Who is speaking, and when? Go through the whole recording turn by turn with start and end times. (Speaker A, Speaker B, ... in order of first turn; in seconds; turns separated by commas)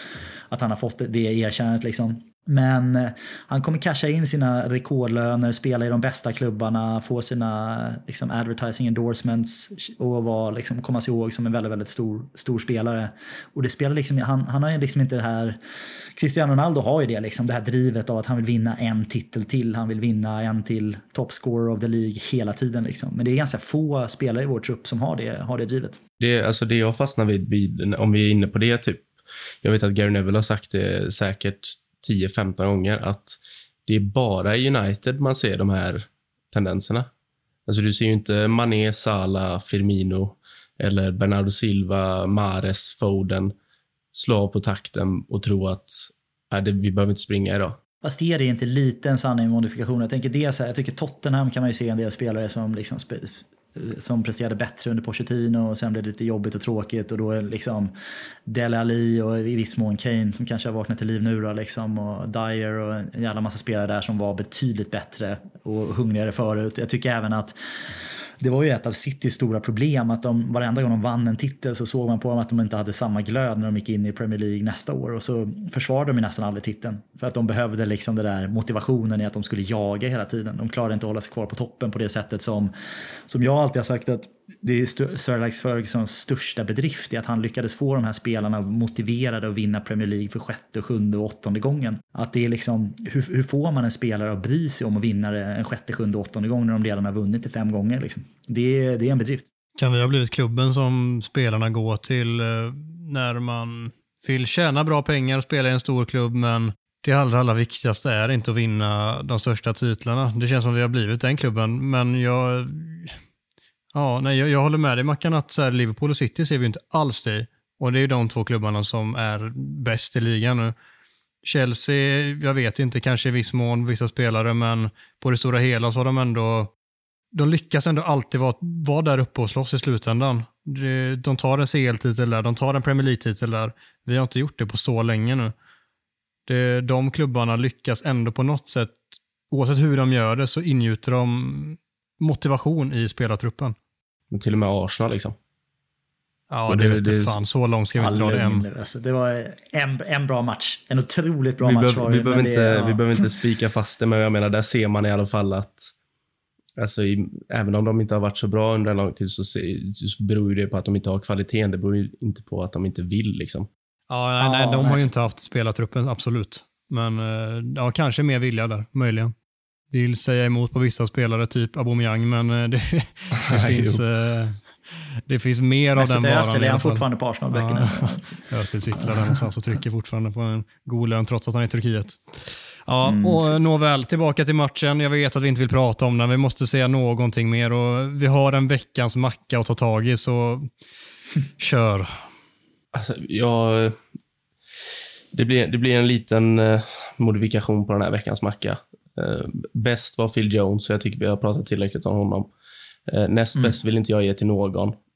Speaker A: 0.5-15.6, Speaker A: 16.2-26.0, Speaker B: 26.2-29.1, Speaker B: 29.6-37.1, Speaker B: 37.7-43.5, Speaker B: 44.1-47.8, Speaker A: 48.0-57.9, Speaker A: 58.5-82.7, Speaker A: 83.3-99.5, Speaker C: 99.8-113.2, Speaker C: 113.9-120.8, Speaker C: 121.4-126.7, Speaker C: 127.3-135.5, Speaker C: 136.5-143.8, Speaker B: 144.3-145.4, Speaker C: 146.5-148.7, Speaker B: 146.7-147.4, Speaker A: 148.0-153.2, Speaker B: 151.6-155.9, Speaker B: 156.8-163.7, Speaker C: 164.1-169.3, Speaker A: 164.4-165.1, Speaker C: 169.9-190.7, Speaker B: 173.5-174.0, Speaker A: 176.0-179.4, Speaker A: 183.0-183.6, Speaker C: 191.6-192.2, Speaker B: 192.9-194.0, Speaker B: 195.3-202.5, Speaker B: 203.1-205.0